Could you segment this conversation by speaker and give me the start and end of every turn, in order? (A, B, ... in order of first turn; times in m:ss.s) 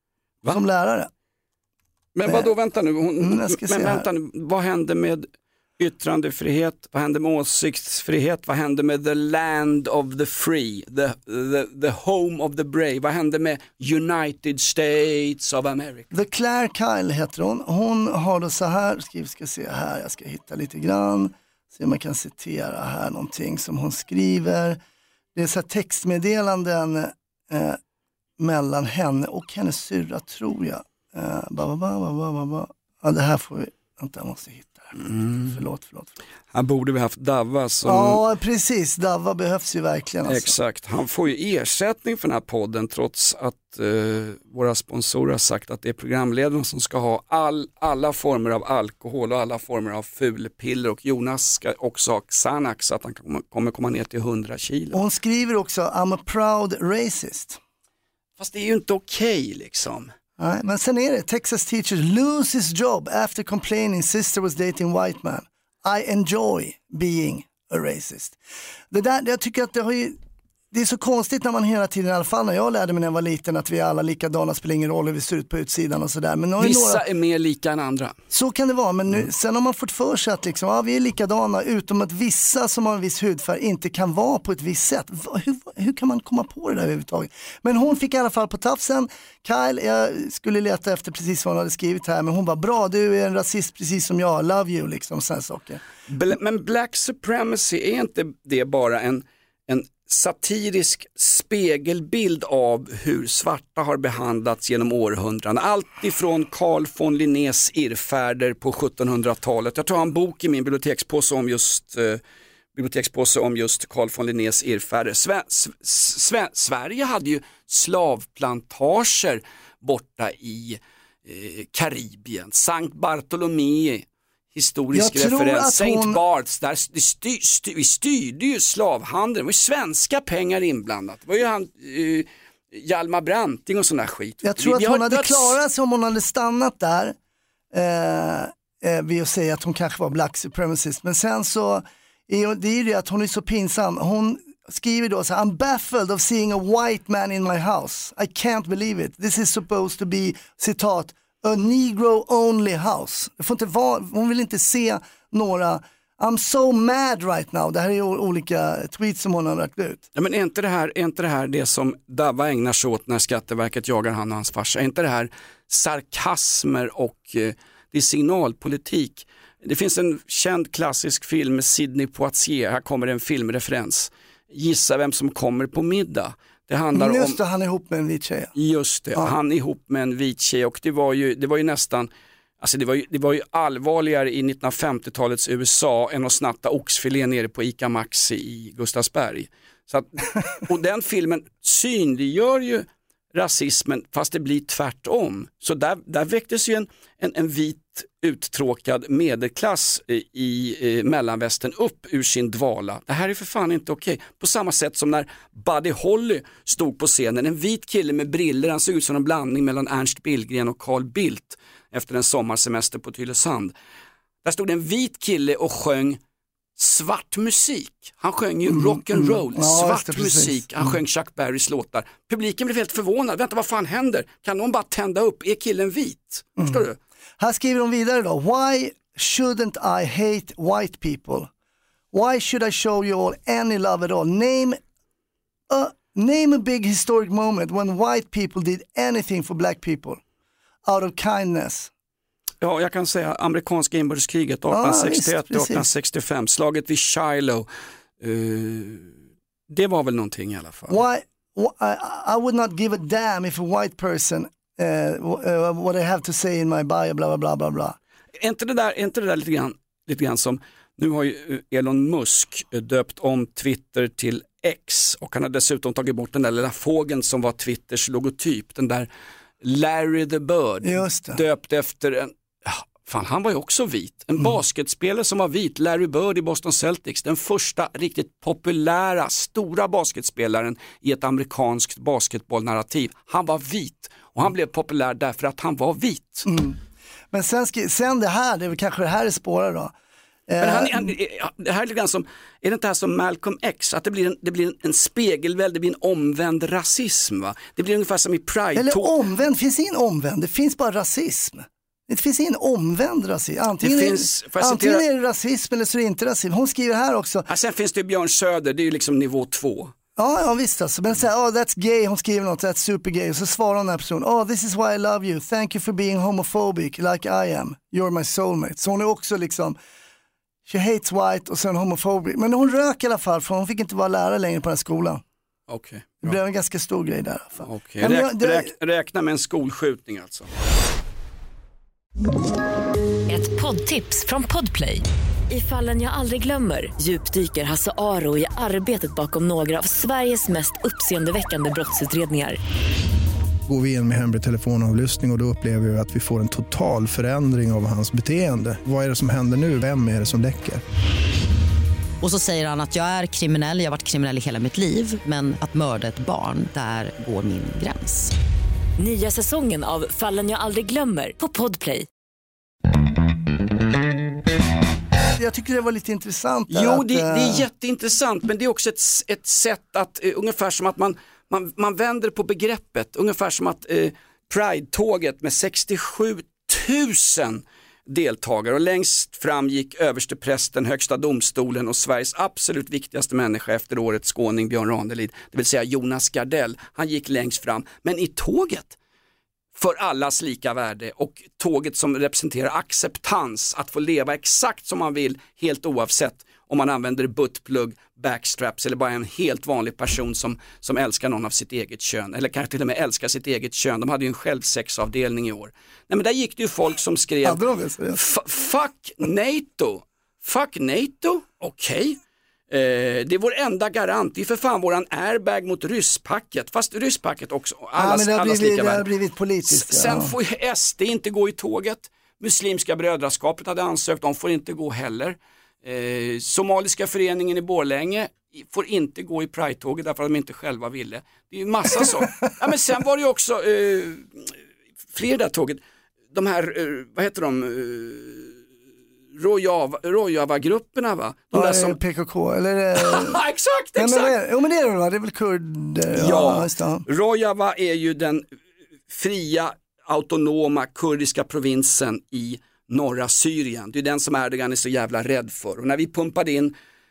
0:00.5-0:01.1 A
0:02.1-0:05.3 B
0:02.2-0:02.5 A
0:03.2-0:04.0 A
0:05.8-0:16.1 B
0:16.1-0:24.8 A
0:25.3-0:27.8 A
0:28.4-0:35.0 A
0:35.0-0:35.6 B
0:35.5-0:36.1 A
0:36.5-0:38.2 B
0:37.8-0:40.6 A
0:40.3-0:55.0 B
0:54.9-0:57.6 A
0:58.4-1:00.1 B
1:00.4-1:08.4 A
1:08.9-1:10.2 A
1:10.7-1:17.0 A
1:16.6-1:18.2 B
1:18.3-1:35.8 A
1:36.1-1:52.2 B
1:52.7-2:15.6 B
2:04.9-2:06.2 A
2:14.4-2:17.2 A
2:17.7-2:40.0 A
2:40.1-2:57.4 B
2:56.9-2:58.5 A
2:58.5-3:02.1 B
3:02.6-3:33.7 B
3:34.4-3:36.2 B
3:36.8-3:47.0 B
3:38.7-3:41.0 A
3:46.6-3:46.8 A
3:47.4-3:51.5 A
3:52.1-3:54.8 A
3:55.7-4:00.2 A
4:00.8-4:01.9 A
4:02.6-4:07.7 B
4:04.7-4:05.9 A
4:08.2-4:09.1 B
4:09.7-4:11.0 B
4:10.9-4:18.0 A
4:18.4-4:29.1 B
4:29.6-4:46.5 B
4:30.8-4:31.4 A
4:46.4-4:46.8 A
4:47.3-4:49.9 A
4:50.5-4:51.1 A
4:50.6-4:59.1 B
4:58.7-5:07.4 A
5:03.8-5:05.0 B
5:07.5-5:09.9 B
5:10.2-5:19.8 A
5:20.6-5:25.2 A
5:25.7-5:26.4 B
5:26.2-5:28.7 A
5:27.6-5:30.5 B
5:33.3-5:42.6 C
5:43.7-5:50.8 D
5:52.2-5:58.3 E
5:59.0-6:02.1 C
6:05.4-6:07.6 A
6:06.7-6:29.0 B
6:29.7-6:47.6 B
6:47.4-6:48.2 A
6:48.1-6:52.2 B
6:52.7-6:59.1 B
6:58.0-7:00.3 A
6:59.6-7:14.5 B
7:12.0-7:12.5 A
7:15.1-7:15.8 B
7:16.3-7:18.6 B
7:19.3-7:22.0 B
7:21.5-7:23.4 A
7:23.0-7:24.4 B
7:23.9-7:27.0 A
7:26.1-7:28.4 B
7:29.1-7:36.8 B